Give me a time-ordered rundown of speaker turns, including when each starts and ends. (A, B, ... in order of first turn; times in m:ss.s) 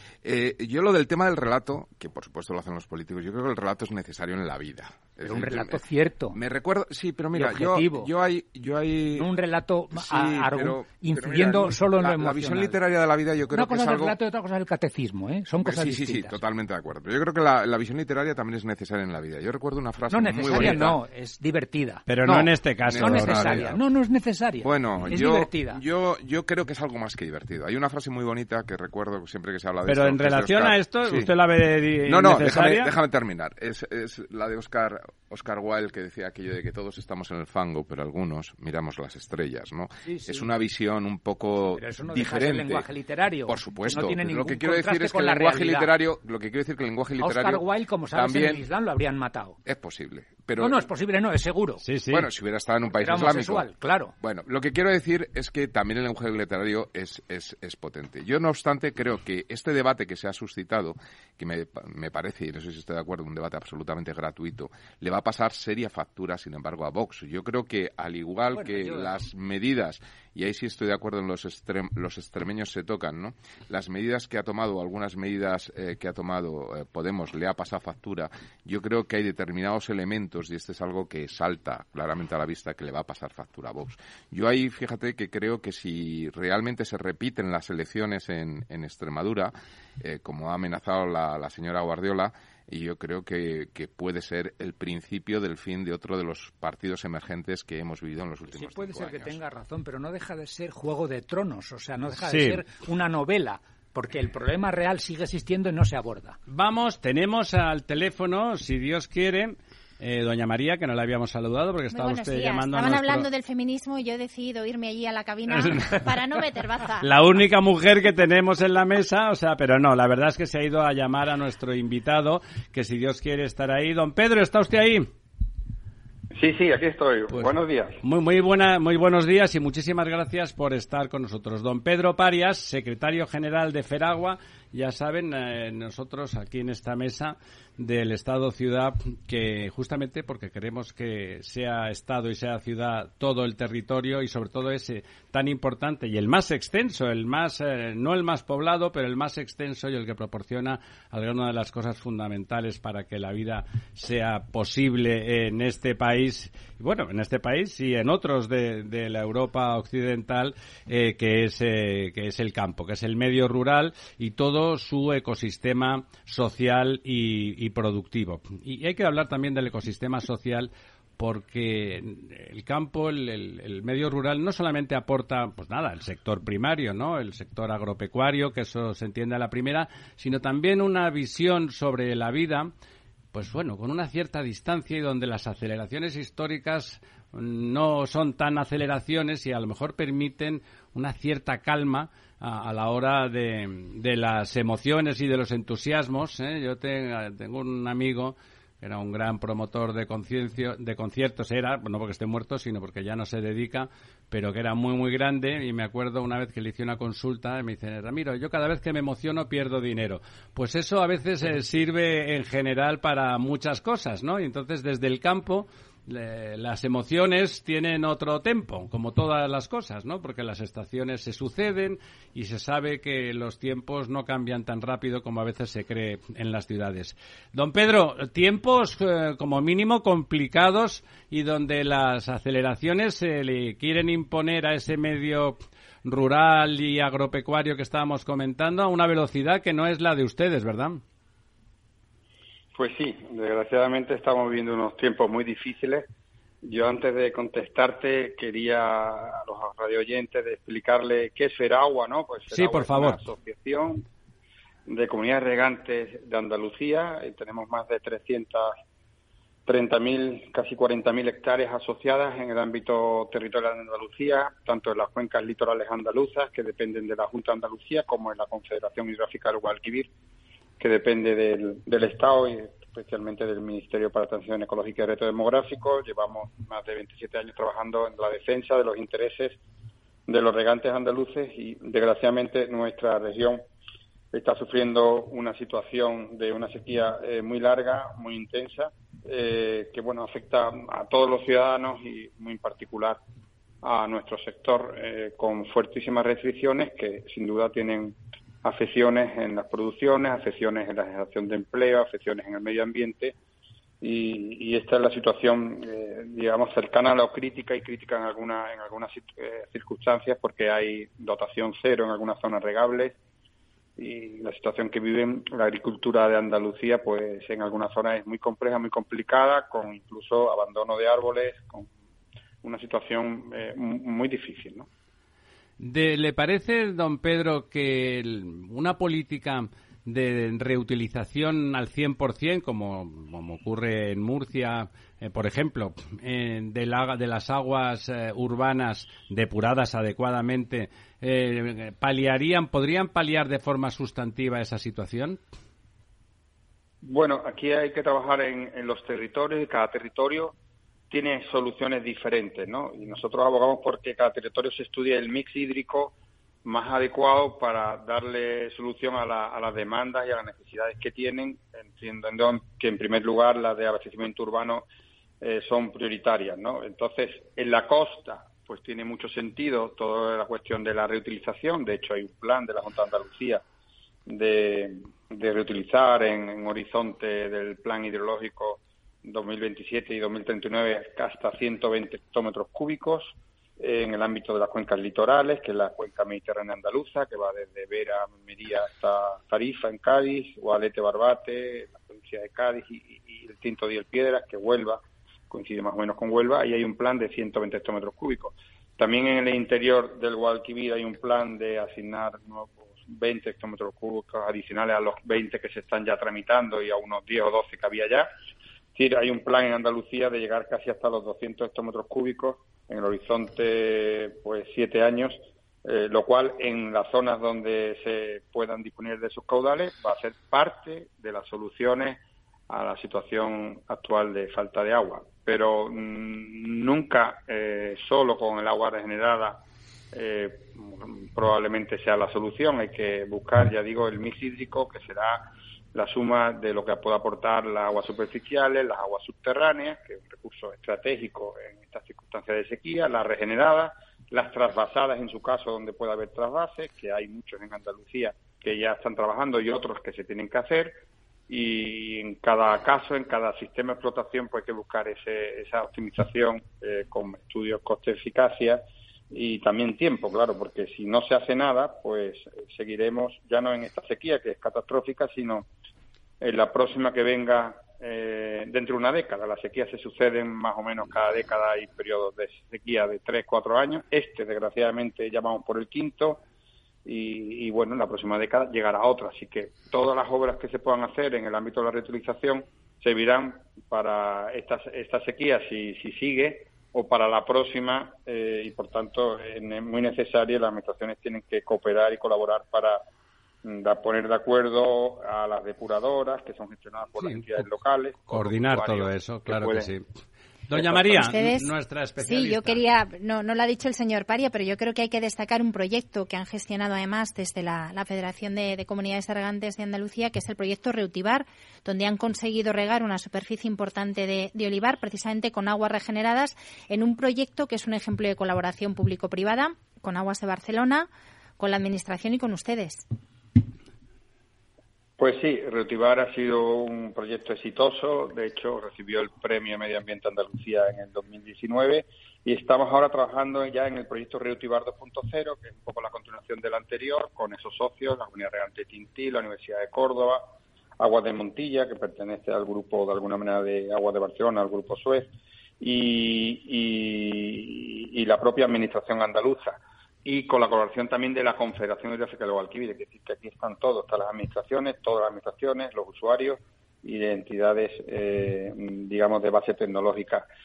0:00.2-0:09.3 A
0:05.2-0:06.4 B
0:07.3-0:08.1 B
0:09.1-0:12.8 B
0:09.9-0:14.2 A
0:13.5-0:16.4 B
0:15.6-0:21.0 A
0:20.1-0:25.8 B
0:22.1-0:23.6 C
0:22.8-0:23.8 A
0:24.6-0:31.3 A
0:29.8-0:32.9 C
0:32.0-0:42.9 A
0:40.0-0:40.5 B
0:41.7-0:45.9 B
0:43.4-0:48.7 A
0:47.2-0:49.6 B
0:49.6-0:50.9 A
0:50.6-0:51.8 B
0:51.8-0:52.2 C
0:52.1-1:39.4 A
0:52.9-0:54.1 B
1:08.5-1:09.1 B
1:38.5-1:46.4 B
1:42.2-1:42.6 C
1:46.5-1:53.3 C
1:51.9-1:57.1 D
1:55.5-1:56.0 C
1:57.0-2:05.1 C
2:06.4-2:08.0 E
2:08.0-3:02.7 C
3:03.3-4:01.0 C
4:02.7-4:06.1 E
4:06.6-4:14.0 E
4:12.5-4:13.2 C
4:14.9-4:18.7 E
4:19.6-4:30.1 E
4:30.8-4:39.6 E
4:40.3-4:43.6 E
4:44.3-4:53.2 E
4:53.8-5:03.3 E
5:04.0-5:13.2 E
5:14.0-5:21.9 E
5:22.6-5:24.9 E
5:25.8-5:45.4 C
5:47.0-5:50.5 E
5:51.1-5:56.1 E
5:56.6-6:04.8 E
6:05.4-6:13.6 E
6:14.3-6:48.3 E
6:48.9-7:31.0 E
7:31.5-7:45.6 E
7:46.4-7:56.4 E
7:57.0-8:13.0 E
8:13.6-8:19.9 E
8:17.2-8:17.7 C
8:18.3-8:20.0 C
8:20.7-8:22.8 C
8:20.8-8:43.0 D
8:45.2-9:20.4 E